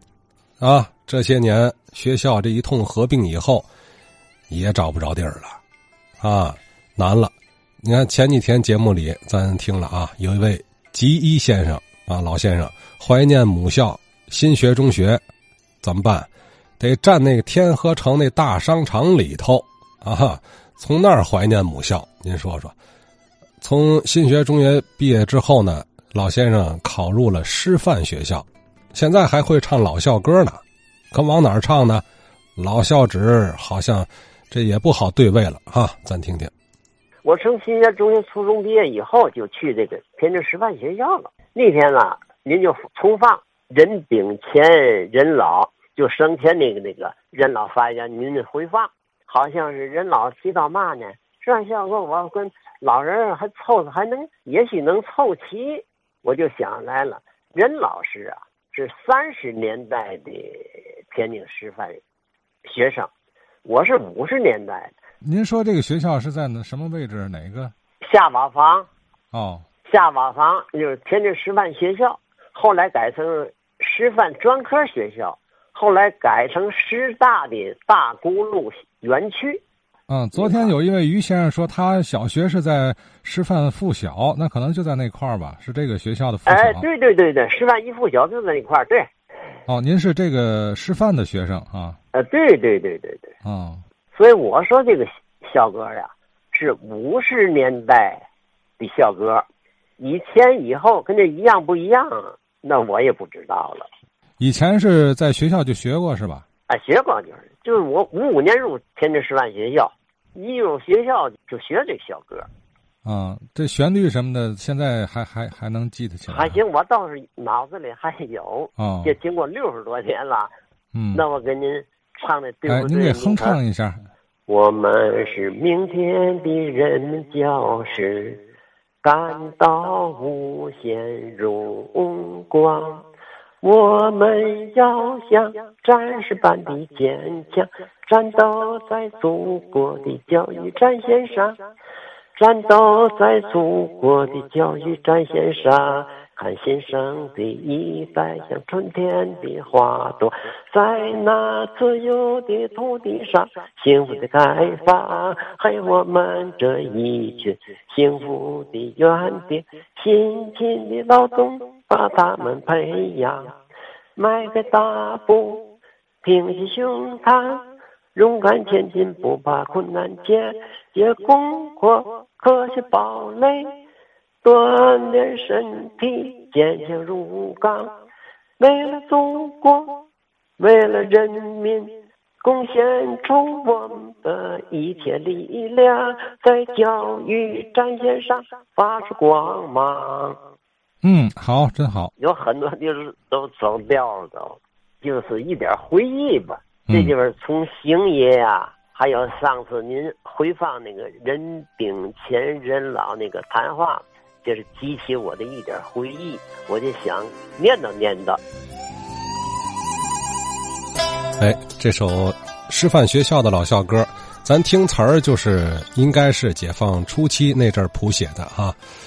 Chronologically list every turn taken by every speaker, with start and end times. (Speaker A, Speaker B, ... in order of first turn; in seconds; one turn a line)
Speaker A: 0.6-3.7
Speaker A: 4.5-5.6
Speaker A: 6.2-15.2
Speaker A: 15.8-22.7
Speaker A: 23.6-30.6
Speaker A: 31.1-32.0
Speaker A: 32.6-36.5
Speaker B: 37.2-62.0
Speaker B: 62.7-63.1
Speaker B: 63.6-64.9
Speaker C: 65.2-67.7
Speaker B: 68.0-68.9
Speaker C: 69.3-69.6
Speaker B: 69.8-79.6
Speaker C: 80.1-86.8
Speaker B: 80.4-80.7
Speaker B: 86.5-89.1
Speaker C: 89.7-92.0
Speaker B: 92.1-93.3
Speaker C: 93.4-93.8
Speaker B: 94.1-98.2
Speaker B: 98.8-99.4
Speaker B: 100.0-103.9
Speaker C: 104.4-106.4
Speaker B: 106.7-112.5
Speaker C: 113.0-116.6
Speaker B: 116.3-120.5
Speaker C: 118.8-119.1
Speaker C: 120.9-121.2
Speaker B: 121.1-123.6
Speaker C: 122.7-124.0
Speaker B: 124.5-128.4
Speaker B: 129.0-133.1
Speaker B: 133.6-141.6
Speaker B: 142.3-163.5
Speaker B: 164.2-173.8
Speaker B: 174.4-177.9
Speaker B: 178.6-180.1
Speaker B: 180.6-190.4
Speaker C: 191.0-192.1
Speaker B: 192.2-208.4
Speaker A: 211.4-218.8